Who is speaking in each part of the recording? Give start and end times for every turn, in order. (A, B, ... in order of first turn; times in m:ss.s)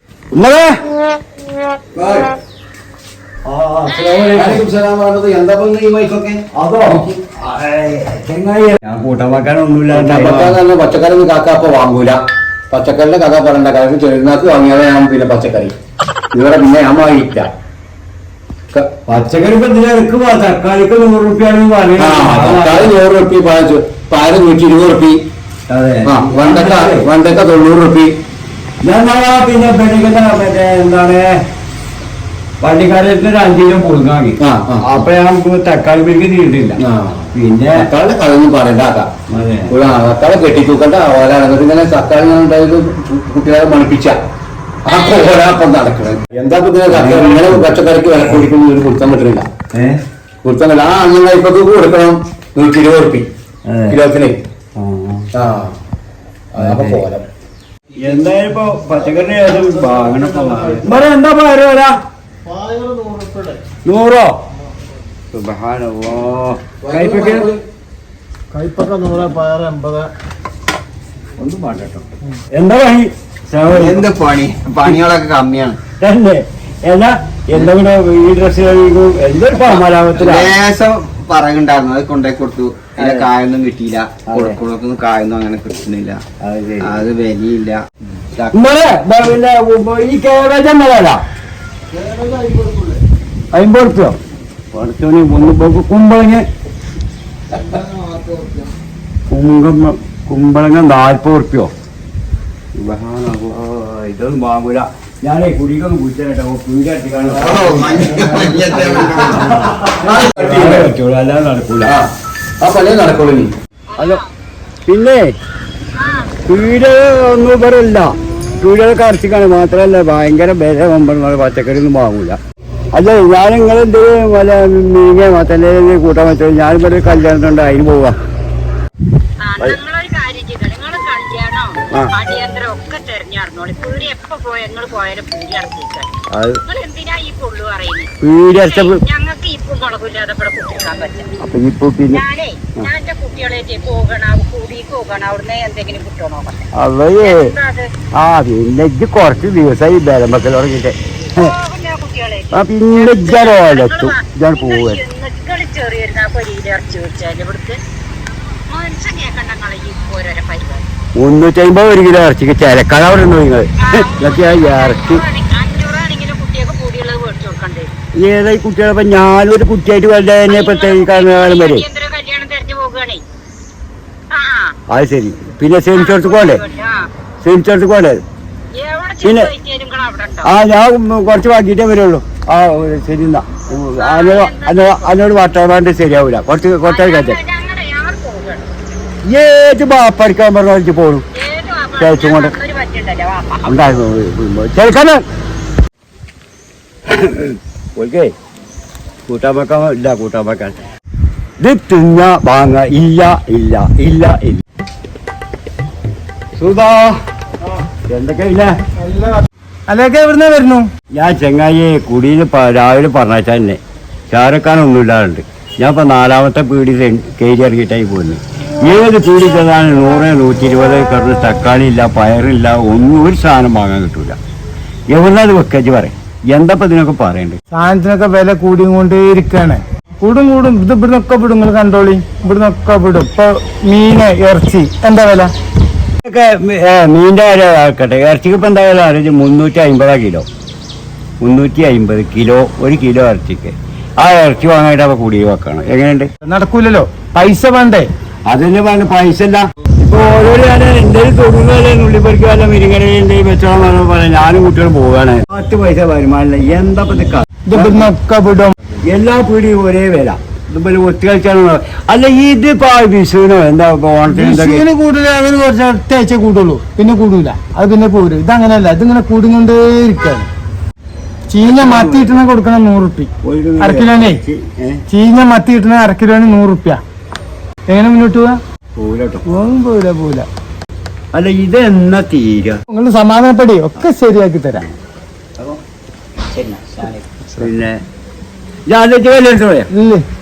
0:00.3-0:00.8 A
0:02.0-0:02.3 B
0:03.4-0:04.6 A
0:03.9-0:04.4 C
0:04.3-0:07.1 B
0:06.5-0:10.6 A
0:09.9-0:15.7 B
0:16.3-0:17.5 B
0:19.1-0:22.9 A
0:22.0-0:25.2 B
0:25.7-0:27.1 A
0:26.0-0:28.1 B
0:28.8-0:31.4 A
0:32.6-0:36.8 A
0:34.4-0:35.1 B
0:36.8-0:39.1 B
0:37.3-0:37.9 A
0:39.3-0:39.7 A
0:39.7-0:44.2 B
0:44.8-0:49.5 B
0:44.9-0:45.5 C
0:46.9-0:48.4 A
0:49.7-0:50.0 A
0:50.4-0:53.3 B
0:53.7-0:54.0 A
0:53.9-0:54.4 B
0:54.8-0:55.3 A
0:55.3-0:55.8 B
0:56.5-0:57.2 B
0:56.6-0:57.0 A
0:58.0-1:02.0 A
1:02.5-1:03.6 D
1:03.8-1:04.4 A
1:05.3-1:07.5 A
1:06.8-1:07.6 B
1:08.5-1:10.1 D
1:11.4-1:14.1 A
1:13.7-1:15.8 E
1:16.0-1:20.6 A
1:19.6-1:26.2 E
1:23.0-1:23.3 A
1:24.3-1:24.6 A
1:26.4-1:27.0 A
1:26.8-1:28.7 E
1:28.5-1:31.2 A
1:32.1-1:33.0 E
1:33.5-1:34.2 A
1:34.7-1:36.5 A
1:39.3-1:41.7 A
1:42.8-1:51.9 A
1:47.3-1:49.7 E
1:50.0-1:50.9 B
1:51.8-1:52.1 B
1:52.6-1:53.5 B
1:53.9-1:54.3 C
1:54.0-1:54.2 A
1:54.9-1:55.3 A
1:56.0-1:56.3 C
1:56.4-2:02.4 A
2:03.0-2:08.2 A
2:09.4-2:21.3 C
2:16.3-2:16.6 A
2:18.2-2:19.0 A
2:21.4-2:22.2 A
2:22.1-2:27.9 C
2:26.7-2:27.5 A
2:28.2-2:31.6 A
2:31.3-2:37.8 C
2:32.5-2:35.0 A
2:38.7-2:40.9 C
2:41.2-2:45.2 A
2:43.8-2:47.9 C
2:48.2-2:51.9 A
2:50.5-2:53.2 C
2:54.3-2:54.8 C
2:54.9-2:56.6 A
2:55.9-2:57.1 C
2:57.4-2:58.2 A
2:58.7-3:00.5 C
2:59.2-2:59.5 A
3:00.4-3:07.4 A
3:03.9-3:05.2 C
3:06.8-3:08.7 C
3:09.2-3:11.2 A
3:11.3-3:14.0 C
3:12.0-3:12.5 A
3:13.6-3:15.2 A
3:17.1-3:18.3 A
3:19.3-3:20.8 A
3:21.6-3:24.6 A
3:26.6-3:27.2 A
3:28.0-3:28.8 A
3:29.0-3:30.9 D
3:31.1-3:44.4 A
3:45.1-3:47.6 A
3:47.7-3:55.5 D
3:56.2-4:00.5 A
4:01.4-4:06.3 A
4:06.4-4:08.1 D
4:08.5-4:18.1 A
4:17.7-4:18.8 D
4:19.1-4:24.9 A
4:24.3-4:30.5 D
4:31.5-4:34.4 D
4:31.6-4:32.4 A
4:33.4-4:35.0 A
4:35.1-4:37.0 D
4:37.9-4:38.6 D
4:39.0-4:39.5 A
4:39.5-4:40.5 D
4:41.3-4:42.8 A
4:42.9-4:44.8 D
4:46.5-4:48.0 A
4:48.9-4:49.9 A
4:49.9-4:50.2 D